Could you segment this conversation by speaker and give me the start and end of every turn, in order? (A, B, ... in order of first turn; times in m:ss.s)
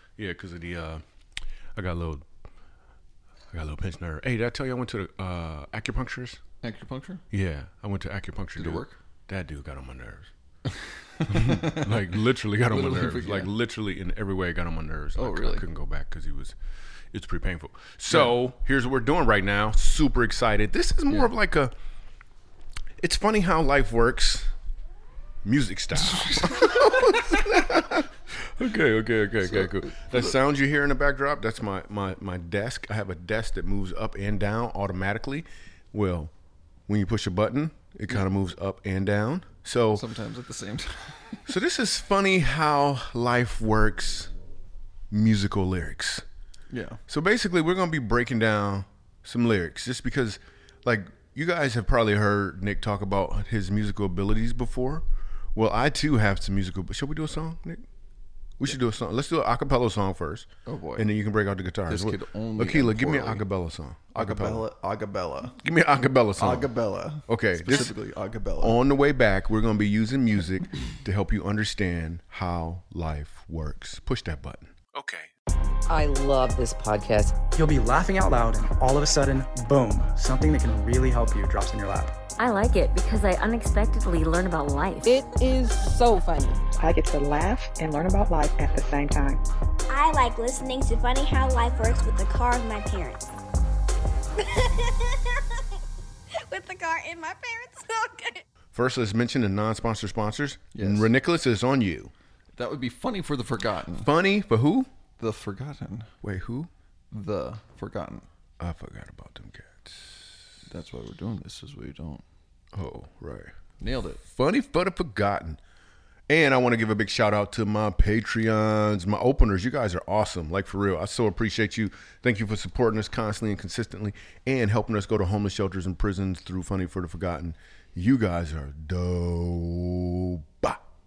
0:00.2-0:01.0 A
0:01.8-0:02.2 A
0:03.5-0:06.4 A
0:06.6-0:07.2 B
0:07.3-0:10.3 A
0:08.6-0:09.0 B
0:10.7-0:12.1 B
0:11.3-0:16.5 A
0:12.6-0:13.5 B
0:15.1-0:15.6 B
0:17.1-0:21.7 A
0:18.1-0:18.3 B
0:23.0-0:24.5 A
0:25.4-0:36.3 A
0:26.0-0:27.4 B
0:29.4-0:30.4 B
0:36.9-0:40.0 A
0:39.9-0:41.5 B
0:41.5-0:44.3 A
0:45.1-0:46.2 A
0:46.7-0:47.0 B
0:47.1-0:57.8 A
0:58.6-1:04.6 A
1:00.6-1:01.1 B
1:01.9-1:03.5 B
1:04.1-1:05.6 B
1:05.6-1:06.7 A
1:06.4-1:08.8 B
1:07.3-1:07.9 A
1:08.6-1:15.3 A
1:15.9-1:17.3 C
1:17.6-1:22.1 D
1:22.4-1:25.2 E
1:25.0-1:26.6 C
1:26.8-1:29.4 F
1:29.9-1:33.3 G
1:34.5-1:35.1 G
1:36.4-1:38.4 G
1:38.7-1:42.1 A
1:40.7-1:41.1 B
1:42.6-1:44.1 B
1:44.0-1:44.9 A
1:45.2-1:46.1 B
1:46.2-1:46.7 A
1:47.1-1:48.2 B
1:48.6-1:50.2 A
1:50.7-1:52.2 B
1:52.7-1:53.5 A
1:53.8-1:54.2 B
1:54.2-1:55.6 A
1:56.3-2:10.8 A